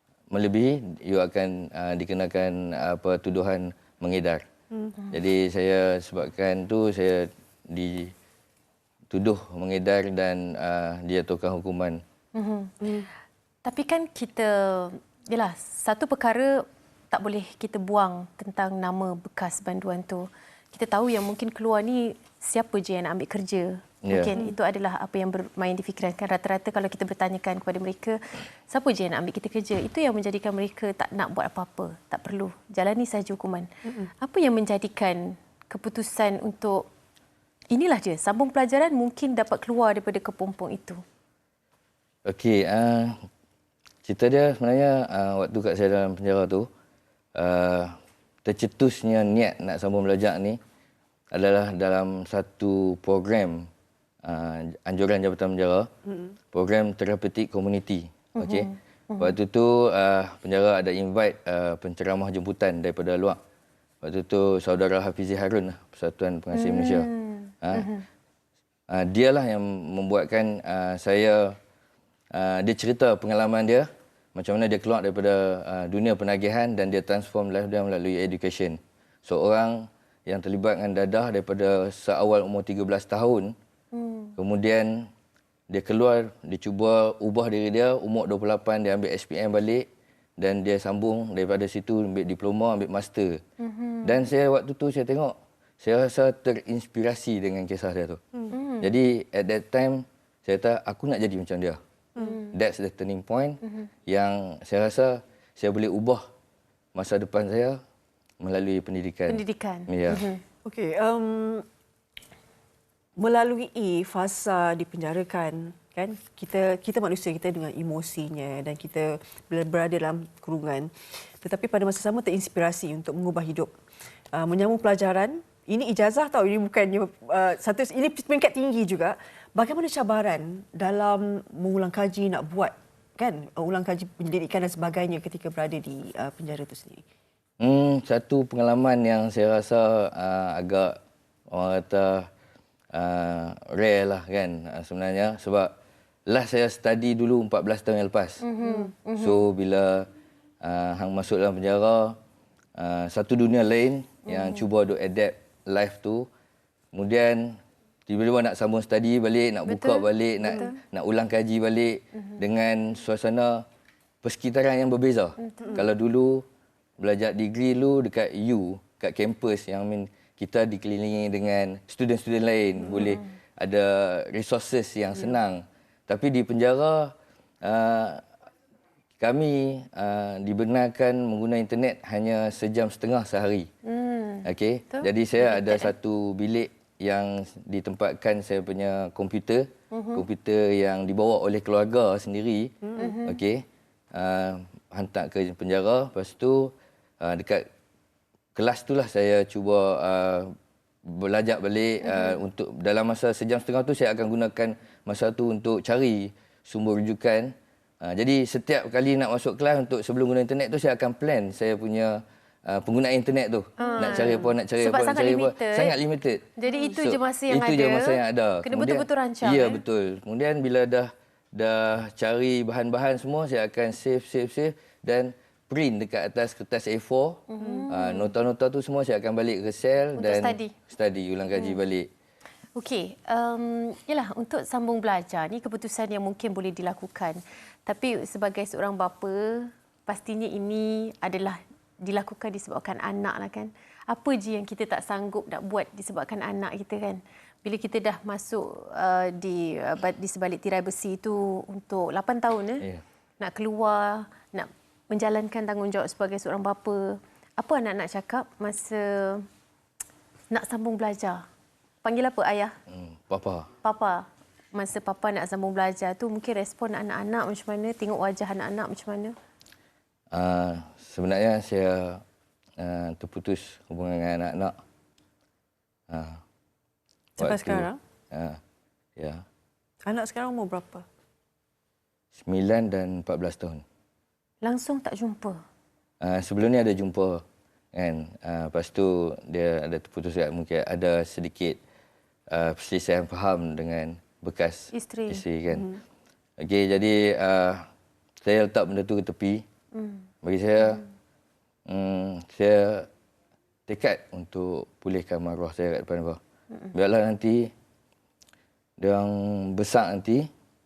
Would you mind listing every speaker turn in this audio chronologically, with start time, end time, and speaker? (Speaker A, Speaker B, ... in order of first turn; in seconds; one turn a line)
Speaker A: 0.3-4.4
Speaker A: 5.1-8.1
Speaker A: 9.1-12.0
Speaker B: 12.3-12.7
Speaker C: 12.8-13.1
Speaker B: 13.6-33.7
Speaker A: 24.0-24.3
Speaker B: 34.2-36.9
Speaker B: 37.7-41.0
Speaker A: 42.2-43.2
Speaker A: 44.0-46.7
Speaker A: 47.3-50.6
Speaker A: 51.3-53.7
Speaker A: 54.2-55.9
Speaker A: 56.5-63.4
Speaker B: 58.4-59.4
Speaker A: 64.0-67.1
Speaker B: 66.5-68.0
Speaker A: 67.6-67.9
Speaker A: 68.9-71.6
Speaker A: 72.3-83.5
Speaker B: 83.9-84.3
Speaker A: 84.4-85.1
Speaker A: 85.7-89.8
Speaker A: 90.4-93.4
Speaker B: 93.6-94.2
Speaker A: 94.0-98.2
Speaker B: 98.5-98.9
Speaker A: 98.8-101.8
Speaker B: 102.2-102.5
Speaker A: 102.5-106.2
Speaker B: 103.6-103.9
Speaker A: 106.9-107.8
Speaker A: 108.4-110.2
Speaker B: 109.3-110.4
Speaker C: 110.6-111.6
Speaker C: 113.2-123.7
Speaker C: 124.3-137.0
Speaker A: 137.6-140.9
Speaker A: 141.5-142.3
Speaker A: 142.9-145.7
Speaker A: 146.3-148.4
Speaker B: 148.4-149.4
Speaker C: 148.6-148.9
Speaker A: 149.2-150.1
Speaker A: 150.6-152.2
Speaker A: 152.8-156.3
Speaker B: 154.2-154.7
Speaker A: 156.9-163.6
Speaker B: 159.7-160.7
Speaker C: 160.4-160.8
Speaker A: 164.2-166.4
Speaker B: 165.4-165.9
Speaker A: 167.0-178.2
Speaker B: 172.9-173.3
Speaker A: 179.2-183.7
Speaker B: 183.8-185.9
Speaker A: 184.4-197.6
Speaker B: 189.9-190.2
Speaker C: 192.8-193.1
Speaker B: 192.9-193.4
Speaker A: 198.5-200.5
Speaker A: 201.1-232.1
Speaker B: 202.0-202.4
Speaker B: 213.8-215.9
Speaker C: 213.8-214.5
Speaker B: 216.6-219.8
Speaker C: 216.7-216.9
Speaker B: 227.5-228.3
Speaker C: 227.6-227.8
Speaker B: 230.2-230.7
Speaker B: 231.5-231.8
Speaker B: 232.8-252.9
Speaker B: 253.4-259.4
Speaker B: 260.5-261.4
Speaker B: 262.0-262.7
Speaker A: 262.9-263.7
Speaker B: 263.8-269.3
Speaker A: 270.3-272.2
Speaker A: 272.8-274.7
Speaker A: 276.1-276.4
Speaker C: 277.4-278.0
Speaker A: 277.4-278.6
Speaker A: 279.2-279.4
Speaker C: 280.1-281.0
Speaker A: 282.3-283.8
Speaker B: 284.6-285.6
Speaker A: 286.2-287.4
Speaker A: 287.9-291.8
Speaker A: 292.5-295.9
Speaker B: 294.9-295.4
Speaker C: 295.7-296.0
Speaker A: 296.6-297.9
Speaker A: 298.4-299.6
Speaker B: 299.9-300.2
Speaker A: 300.4-301.0
Speaker A: 301.9-303.1
Speaker A: 303.9-306.4
Speaker A: 306.9-307.7
Speaker A: 309.0-310.5